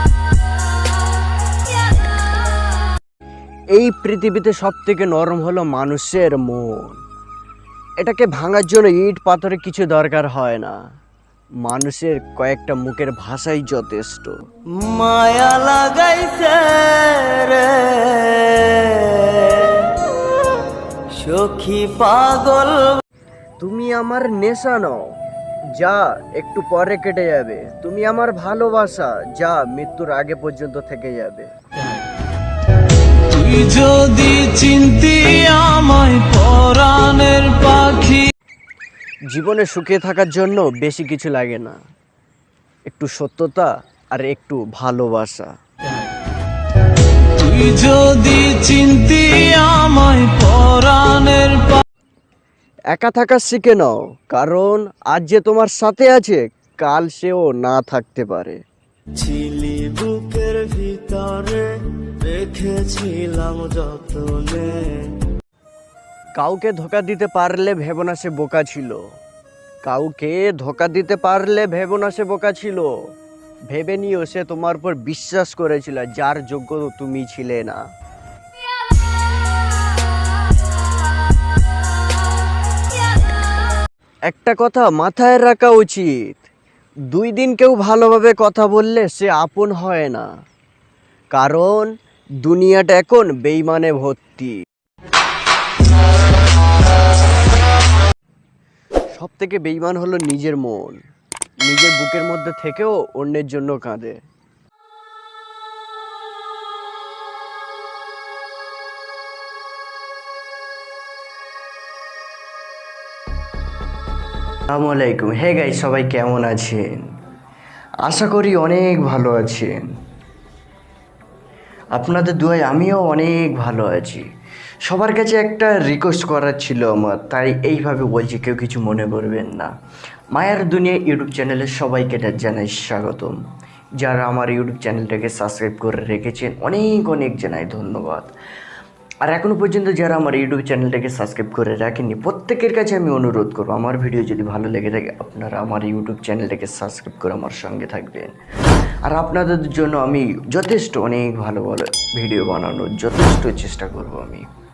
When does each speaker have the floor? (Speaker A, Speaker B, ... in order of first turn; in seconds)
Speaker A: 3.7-7.0, 8.0-10.8, 11.6-14.4, 23.6-25.1, 25.7-31.5, 39.3-41.8, 42.9-45.5, 52.9-58.6, 66.4-69.0, 69.8-72.9, 73.7-77.8, 84.3-86.4, 87.1-90.3, 91.3-91.9, 92.4-94.6, 99.1-101.0, 101.6-104.2, 114.7-117.1, 118.0-119.9, 121.9-124.3, 124.8-129.7, 130.3-133.4, 134.0-138.3, 139.2-148.3, 149.0-154.4
Speaker B: 14.7-20.0, 20.9-23.0, 59.1-65.2
Speaker C: 33.2-38.3, 47.4-51.8